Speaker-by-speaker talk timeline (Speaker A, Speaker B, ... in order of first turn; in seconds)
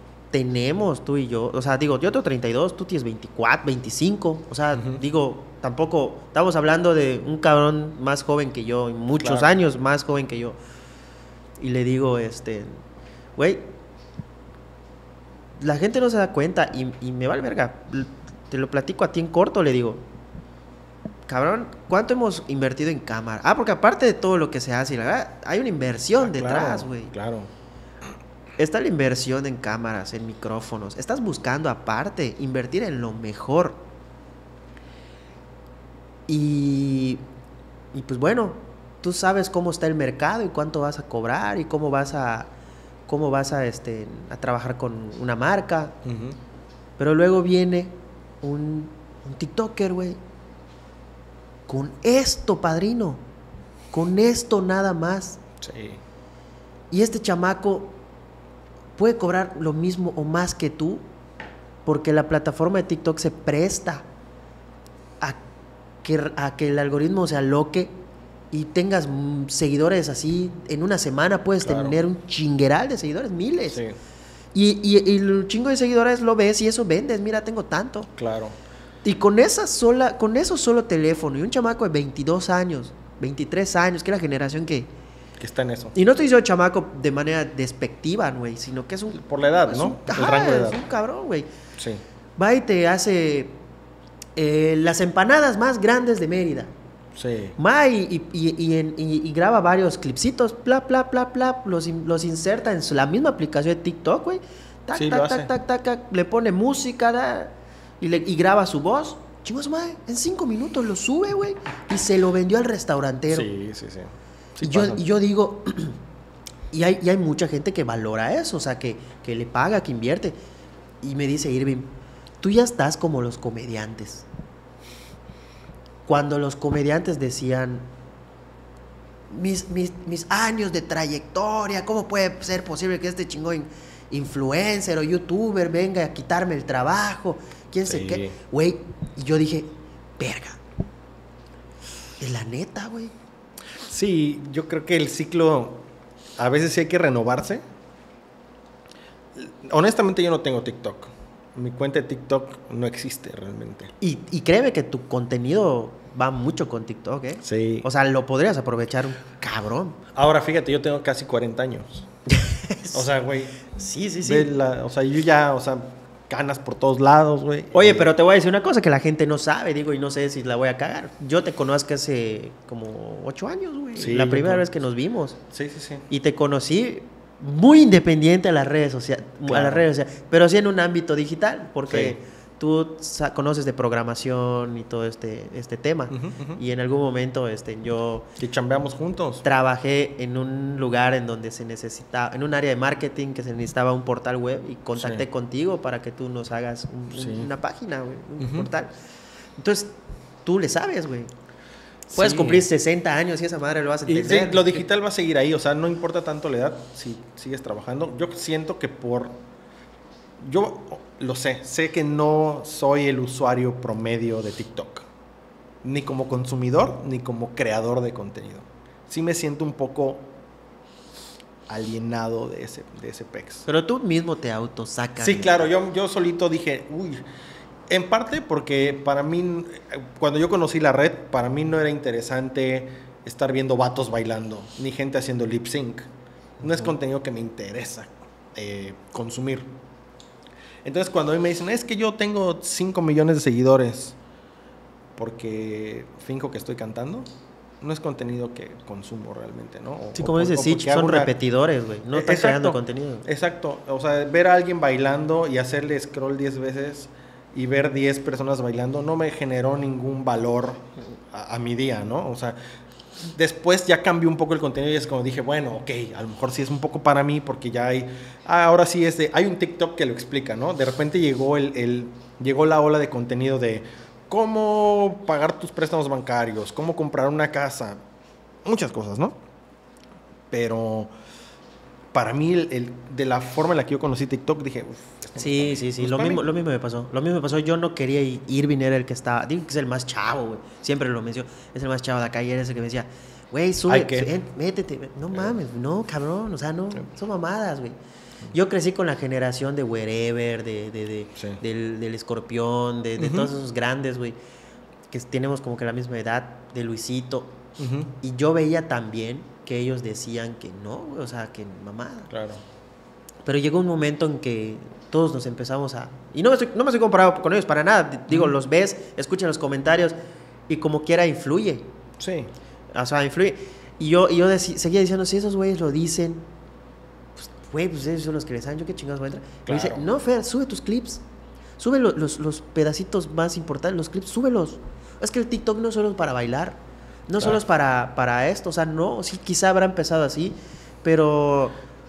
Speaker A: 0.3-10.6, 11.6-12.8, 13.3-13.6, 15.6-20.0, 21.3-27.1, 28.6-33.8, 36.3-37.2, 37.9-42.5, 43.1-45.9, 47.0-50.2, 51.7-53.2, 53.9-55.4, 56.9-58.0, 59.0-61.0, 61.9-64.0, 66.0-67.9, 68.5-73.8, 74.5-78.1, 79.0-84.9, 85.9-91.5, 92.4-93.5, 94.3-96.7, 97.6-113.5, 114.6-116.0, 116.7-120.3, 121.0-124.2, 126.0-127.8, 129.3-140.6, 142.2-143.1, 154.0-160.0, 162.3-163.1, 163.6-164.5, 167.7-175.4, 176.1-188.3, 189.4-198.9, 199.6-199.9, 200.4-201.3, 202.1-204.8, 223.7-225.7, 236.6-236.9, 250.2-253.3, 285.4-297.9, 298.5-304.4, 305.1-307.6, 308.2-312.3, 313.4-320.1, 320.7-321.9, 322.9-326.4, 327.4-331.2, 331.8-341.8
Speaker B: 4.7-5.0, 9.2-9.5, 26.2-27.5, 46.0-46.4, 55.6-56.0, 71.6-72.0, 78.2-78.5, 85.4-85.9, 89.1-90.8, 97.2-97.5, 104.9-105.5, 113.3-115.0, 137.8-138.4, 143.8-145.8, 146.4-147.6, 149.3-153.9, 157.4-157.9, 160.1-162.1, 162.9-163.6, 164.2-168.1, 174.0-174.7, 175.5-176.0, 179.4-179.8, 181.9-182.2, 186.1-186.6, 188.4-189.4, 195.0-195.2, 197.1-197.5, 198.4-198.7, 202.1-202.7, 204.1-209.4, 210.4-215.1, 215.8-220.3, 221.7-223.6, 225.2-227.2, 227.9-236.1, 236.6-239.7, 240.8-244.2, 245.2-247.3, 247.8-251.3, 252.1-262.6, 263.3-278.0, 278.6-279.4, 280.5-281.1, 282.1-286.4, 293.9-294.3, 303.2-303.5, 307.8-308.1, 312.3-312.6, 322.2-322.5, 329.7-330.0